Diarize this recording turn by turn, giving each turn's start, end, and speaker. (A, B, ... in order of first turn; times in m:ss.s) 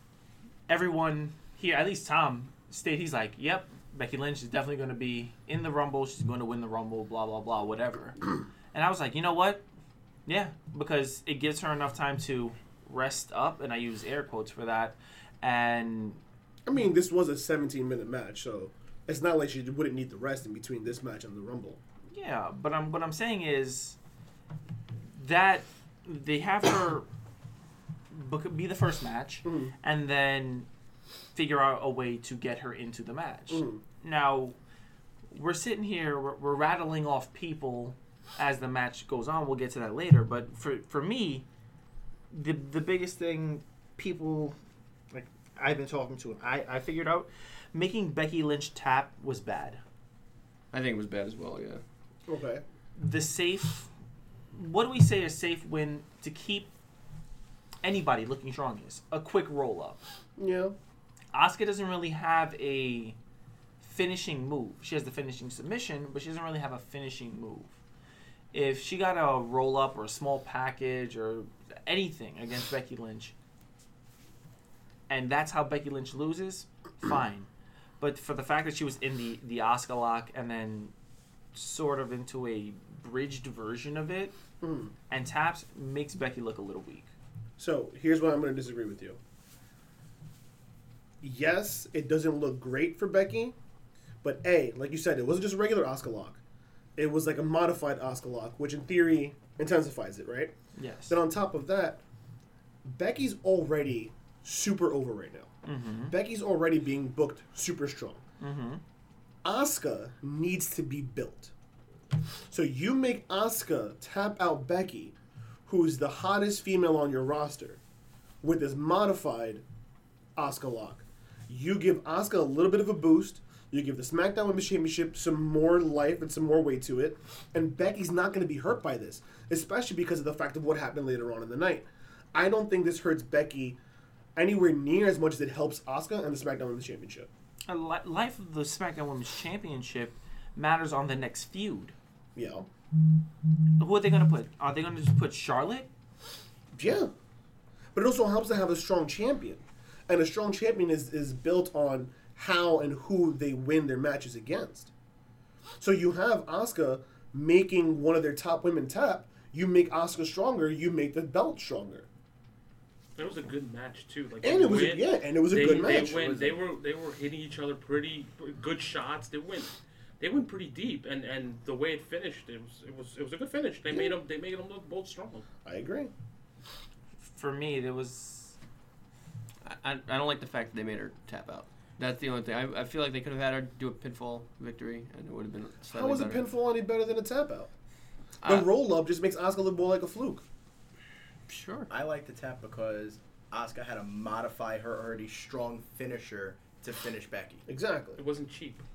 0:00.7-0:08.2 A
0:08.7-0:09.6 A
0:10.3-0:16.2 A
0:16.7-0:21.8 B
0:22.1-0:24.0 A
0:25.2-0:27.1 A
0:28.1-0:30.7 A
0:29.4-0:29.7 B
0:31.4-0:34.6 A
0:33.5-0:33.8 B
0:35.3-0:41.4 A
0:42.3-0:44.6 A
0:45.1-0:49.8 A
0:50.7-0:51.8 C
0:52.3-0:52.6 B
0:53.0-0:53.9 A
0:54.5-0:56.7 A
0:57.8-1:00.0 A
1:00.4-1:00.8 B
1:01.3-1:03.2 A
1:03.8-1:07.7 A
1:08.5-1:13.3 A
1:15.1-1:17.5 A
1:18.0-1:20.9 A
1:21.5-1:24.4 A
1:24.6-1:24.9 B
1:25.1-1:27.1 A
1:27.6-1:29.2 B
1:31.2-1:33.6 B
1:34.2-1:36.4 B
1:37.0-1:40.5 B
1:40.8-1:41.2 A
1:41.1-1:42.0 B
1:42.8-1:45.5 B
1:45.6-1:46.2 A
1:46.1-1:48.2 B
1:48.4-1:48.8 A
1:49.4-1:51.5 B
1:52.5-1:55.2 B
1:55.7-1:57.8 B
1:58.4-1:59.6 B
2:00.4-2:13.8 B
2:14.4-2:17.3 B
2:17.7-2:21.9 A
2:22.4-2:22.7 B
2:23.8-2:25.9 A
2:26.7-2:27.1 B
2:27.9-2:34.9 B
2:35.8-2:42.1 B
2:43.2-2:55.4 D
2:44.4-2:46.3 B
2:45.6-2:46.6 E
2:55.6-2:56.1 B
2:57.2-2:58.6 A
2:59.6-3:06.4 C
3:05.9-3:07.7 B
3:08.4-3:10.4 B
3:11.5-3:11.9 C
3:11.9-3:17.6 E
3:17.7-3:18.2 B
3:18.2-3:18.8 D